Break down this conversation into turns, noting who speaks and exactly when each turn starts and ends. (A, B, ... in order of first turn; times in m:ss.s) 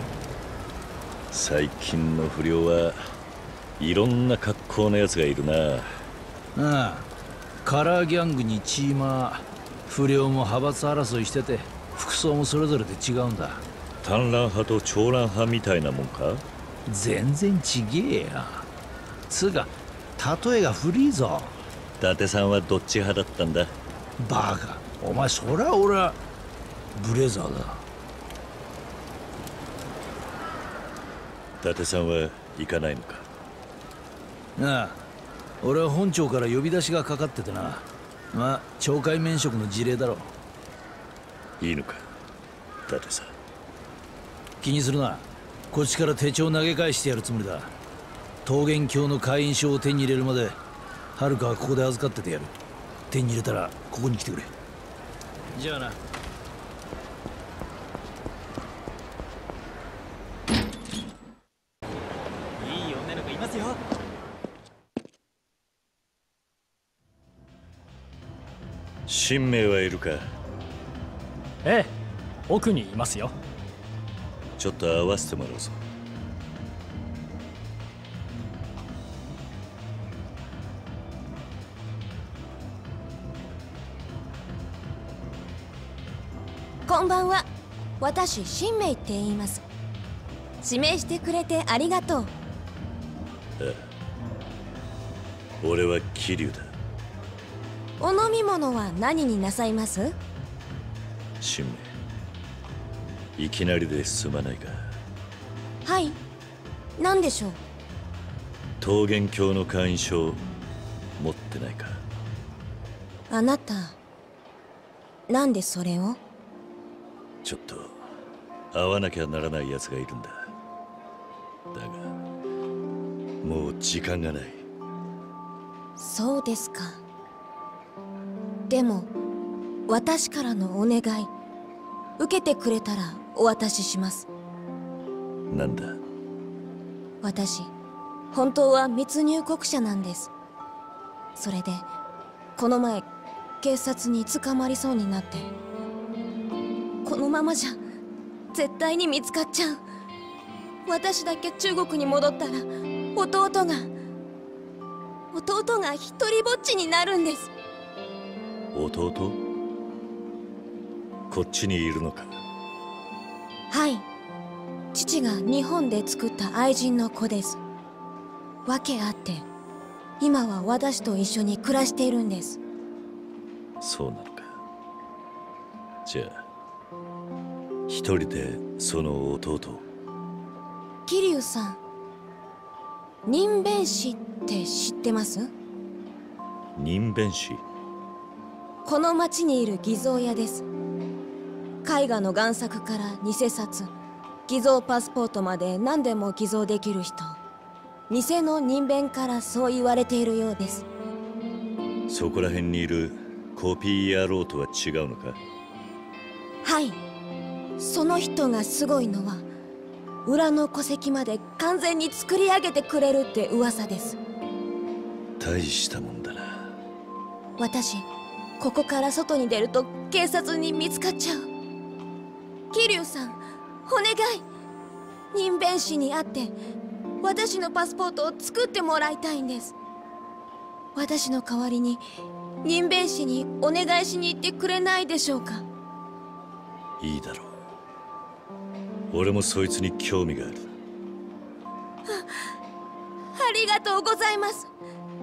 0:01.3-0:03.1 A
0:03.8-0:06.0 A
0:06.6-0:07.1 B
0:07.6-0:13.6 B
0:14.0-0:16.4 A
0:16.9-0:18.7 B
0:19.3-0:21.6 B
0:22.0-0:23.7 A
0:24.2-0:26.2 B
0:26.9-0:27.8 B
0:31.6-0:33.2 A
0:34.6-0:35.0 B
0:35.6-0:40.3 B
0:41.6-0:42.1 A
0:42.9-0:43.3 A
0:44.6-0:47.7 B
0:48.4-0:50.6 B
0:51.2-0:52.5 B
0:53.1-0:54.5 B
0:55.5-0:56.0 B
1:02.6-1:03.8 C
1:09.1-1:10.3 A
1:11.6-1:11.9 C
1:12.5-1:13.3 C
1:14.6-1:15.8 A
1:26.9-1:27.4 D
1:28.0-1:29.6 D
1:30.6-1:32.3 D
1:33.6-1:33.8 A
1:35.6-1:36.7 A
1:38.0-1:40.2 D
1:41.4-1:41.9 A
1:43.4-1:45.0 A
1:45.8-1:46.2 D
1:47.0-1:47.6 D
1:48.8-1:50.4 A
1:51.2-1:52.0 A
1:53.3-1:54.0 D
1:55.3-1:56.2 D
1:57.4-1:58.0 A
1:58.7-2:00.5 A
2:01.7-2:02.1 A
2:03.4-2:04.6 A
2:06.0-2:07.0 D
2:08.7-2:09.1 D
2:09.9-2:11.3 D
2:12.2-2:14.3 D
2:15.5-2:16.0 A
2:17.2-2:17.7 D
2:18.3-2:20.3 D
2:21.3-2:21.9 D
2:22.6-2:23.1 D
2:23.6-2:25.5 D
2:27.0-2:27.8 D
2:28.5-2:29.8 D
2:30.8-2:33.9 D
2:35.3-2:37.5 D
2:38.7-2:39.4 A
2:41.3-2:42.3 A
2:43.7-2:44.0 D
2:44.9-2:47.6 D
2:48.6-2:49.5 D
2:50.2-2:52.6 D
2:53.8-2:54.6 A
2:56.0-2:56.4 A
2:57.9-2:59.8 A
3:01.0-3:01.8 D
3:03.2-3:05.5 D
3:06.8-3:07.6 A
3:08.8-3:10.6 D
3:11.8-3:13.9 D
3:14.5-3:17.4 D
3:18.1-3:20.8 D
3:22.1-3:25.4 A
3:26.6-3:27.0 D
3:27.8-3:29.4 D
3:30.2-3:34.2 D
3:35.4-3:36.7 A
3:37.6-3:38.1 D
3:38.6-3:41.5 D
3:42.7-3:44.4 D
3:45.3-3:46.5 D
3:47.2-3:49.8 D
3:50.9-3:52.0 D
3:52.6-3:55.7 D
3:57.0-3:57.5 A
3:59.1-4:00.7 A
4:03.3-4:04.7 D